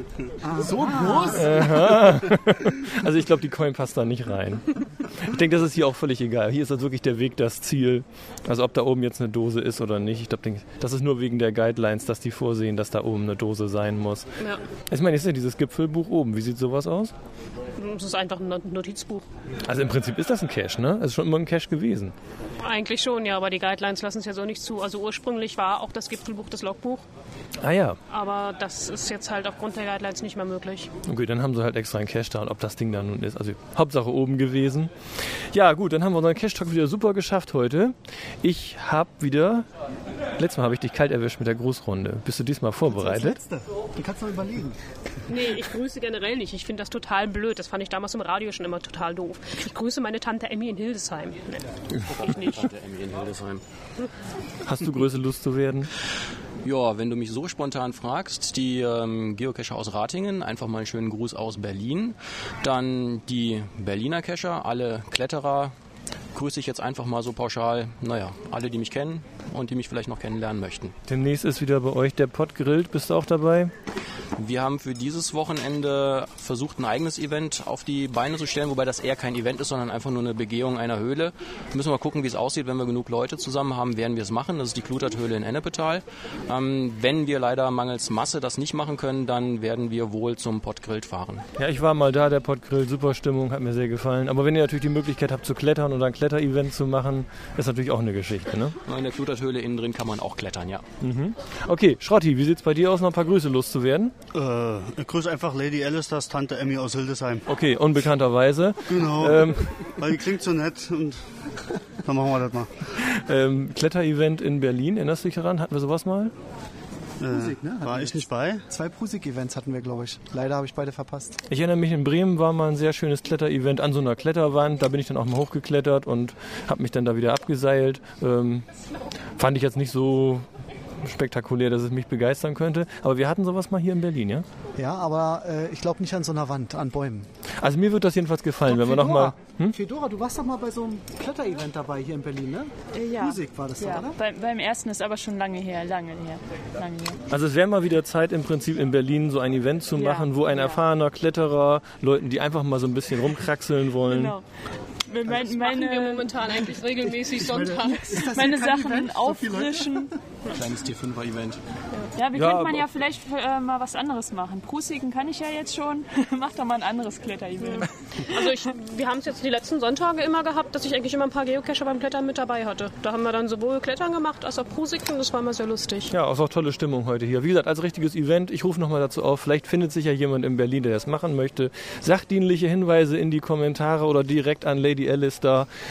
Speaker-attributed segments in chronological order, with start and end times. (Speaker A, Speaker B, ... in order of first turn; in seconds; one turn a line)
Speaker A: 0.4-1.9
Speaker B: 1.0-1.8
Speaker C: 1.2-14.3
Speaker C: 14.9-17.1
Speaker B: 17.8-19.2
Speaker C: 19.6-22.1
Speaker B: 22.6-27.0
Speaker C: 27.6-28.0
Speaker B: 28.1-30.9
Speaker C: 31.1-34.9
Speaker C: 35.5-39.6
Speaker C: 40.4-43.4
Speaker A: 42.8-44.8
Speaker B: 45.3-51.7
Speaker D: 52.0-53.6
Speaker B: 52.2-52.6
Speaker C: 54.6-55.9
Speaker D: 56.6-65.7
Speaker D: 66.3-70.9
Speaker C: 71.1-73.7
Speaker D: 74.3-91.5
Speaker C: 91.6-98.8
Speaker D: 98.8-100.8
Speaker C: 101.0-104.1
Speaker E: 104.3-107.5
Speaker C: 107.5-109.7
Speaker E: 108.8-111.2
Speaker E: 112.0-112.8
Speaker C: 113.0-116.3
Speaker E: 117.2-118.6
Speaker A: 117.3-121.4
Speaker C: 121.5-128.6
Speaker C: 129.4-130.4
Speaker C: 131.0-134.4
Speaker A: 134.8-137.3
Speaker C: 137.6-139.8
Speaker A: 138.7-144.2
Speaker F: 142.9-147.2
Speaker C: 147.3-154.4
Speaker F: 149.9-150.8
Speaker F: 154.1-154.4
Speaker F: 155.0-156.4
Speaker B: 155.3-158.2
Speaker A: 157.4-160.1
Speaker F: 158.0-160.1
Speaker D: 160.5-161.6
Speaker F: 162.2-168.3
Speaker C: 162.3-162.9
Speaker B: 167.6-176.1
Speaker C: 176.1-185.7